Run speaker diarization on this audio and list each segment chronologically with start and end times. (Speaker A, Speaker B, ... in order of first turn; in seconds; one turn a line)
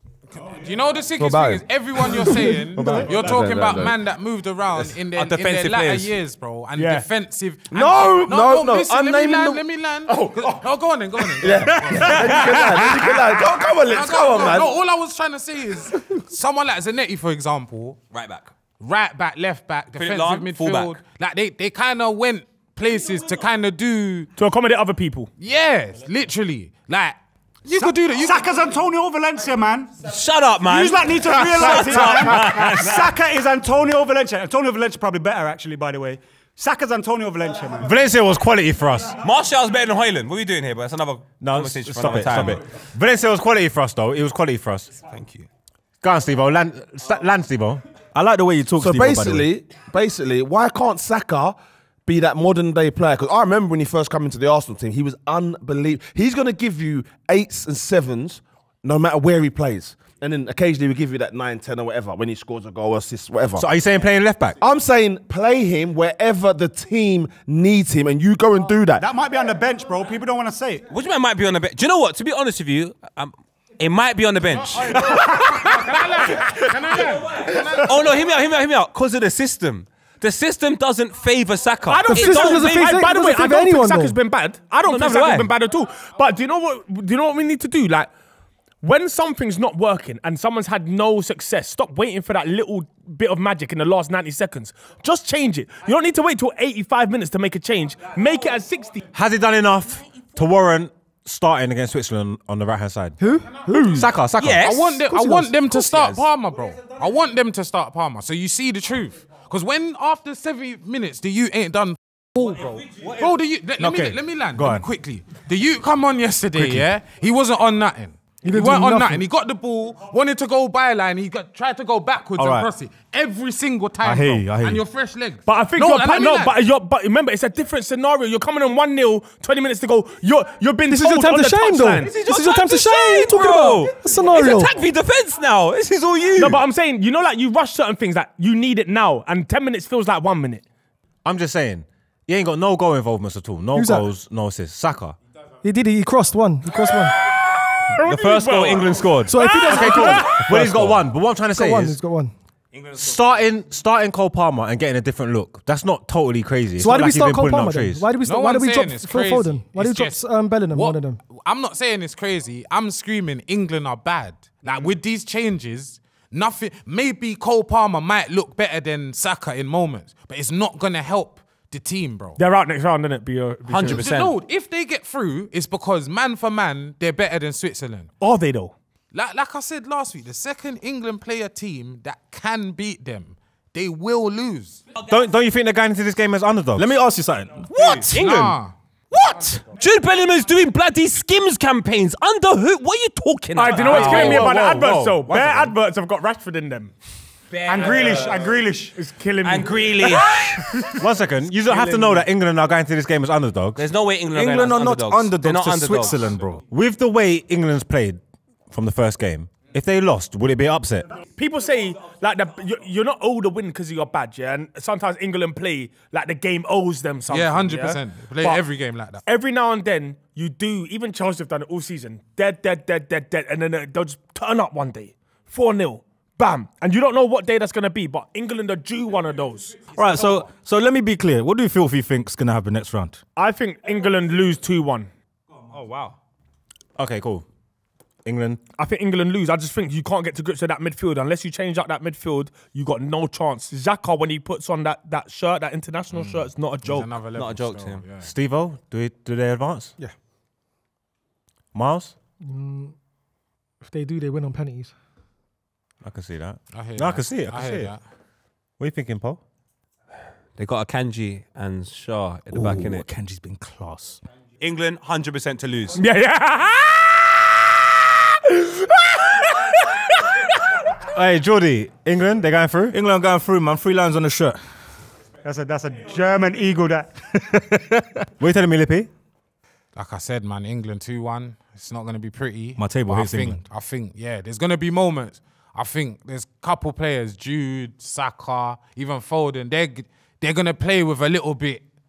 Speaker A: 0.4-12.6
Speaker B: 1.2-4.0
Speaker C: 2.4-3.0
Speaker D: 5.2-6.1
Speaker E: 6.8-7.1
Speaker B: 7.7-10.6
Speaker B: 11.4-14.7
Speaker E: 11.7-13.3
Speaker A: 13.8-18.0
Speaker D: 18.1-18.5
Speaker A: 18.8-24.3
Speaker D: 20.0-21.0
Speaker E: 24.4-25.3
Speaker A: 25.4-28.5
Speaker F: 27.7-30.1
Speaker D: 30.0-33.1
Speaker F: 30.6-38.0
Speaker G: 37.8-39.2
Speaker D: 39.2-42.6
Speaker G: 41.4-45.0
Speaker D: 45.1-45.5
Speaker G: 46.0-47.8
Speaker H: 48.1-49.5
Speaker B: 48.8-63.7
Speaker G: 63.6-64.6
Speaker B: 64.6-69.0
Speaker F: 69.0-70.8
Speaker D: 70.9-76.7
Speaker A: 75.0-77.9
Speaker D: 77.3-83.0
Speaker E: 81.9-88.1
Speaker C: 82.1-84.2
Speaker D: 84.9-85.5
Speaker E: 88.8-99.0
Speaker G: 99.1-103.2
Speaker C: 103.2-104.1
Speaker G: 104.0-104.8
Speaker D: 104.4-105.0
Speaker A: 104.6-126.6
Speaker C: 105.1-105.6
Speaker H: 113.8-114.9
Speaker H: 116.5-116.9
Speaker C: 118.4-119.3
Speaker H: 122.4-122.7
Speaker H: 124.0-124.8
Speaker E: 125.5-132.2
Speaker C: 130.9-134.8
Speaker D: 132.0-136.6
Speaker E: 136.4-140.6
Speaker G: 141.2-145.2
Speaker C: 143.7-144.1
Speaker C: 145.6-147.2
Speaker E: 147.2-150.5
Speaker D: 148.0-149.5
Speaker C: 149.2-150.5
Speaker G: 149.6-152.0
Speaker H: 150.6-151.0
Speaker C: 151.5-152.3
Speaker G: 152.9-158.1
Speaker C: 156.8-161.2
Speaker A: 158.2-172.4
Speaker E: 172.4-174.1
Speaker D: 173.7-174.4
Speaker A: 173.8-178.1
Speaker E: 178.2-178.8
Speaker A: 179.1-184.8
Speaker G: 185.0-186.9
Speaker H: 186.8-188.1
Speaker D: 187.7-188.6
Speaker A: 188.0-188.8
Speaker D: 189.1-194.7
Speaker A: 189.3-189.6
Speaker E: 193.6-196.9
Speaker A: 193.7-195.7
Speaker H: 194.0-194.8
Speaker D: 197.5-198.5
Speaker F: 197.7-199.0
Speaker E: 199.0-201.0
Speaker D: 199.4-200.8
Speaker G: 201.0-203.8
Speaker D: 203.8-206.3
Speaker H: 204.3-206.6
Speaker G: 206.7-211.1
Speaker E: 211.4-218.7
Speaker A: 217.3-219.2
Speaker E: 219.3-229.8
Speaker H: 229.9-233.2
Speaker E: 233.4-235.1
Speaker A: 235.7-236.2
Speaker G: 237.0-237.4
Speaker G: 238.2-238.6
Speaker E: 238.8-247.2
Speaker A: 246.1-248.3
Speaker D: 247.3-248.1
Speaker G: 248.2-250.0
Speaker G: 251.7-252.2
Speaker C: 252.4-252.9
Speaker C: 253.8-254.9
Speaker G: 256.0-257.9
Speaker A: 256.7-258.0
Speaker G: 258.8-259.4
Speaker D: 260.6-263.1
Speaker H: 262.5-264.2
Speaker D: 264.6-266.0
Speaker E: 266.0-267.7
Speaker E: 268.3-270.7
Speaker G: 271.1-272.9
Speaker H: 272.9-274.9
Speaker F: 275.4-277.3
Speaker G: 278.4-279.1
Speaker A: 279.9-291.8
Speaker H: 282.8-283.6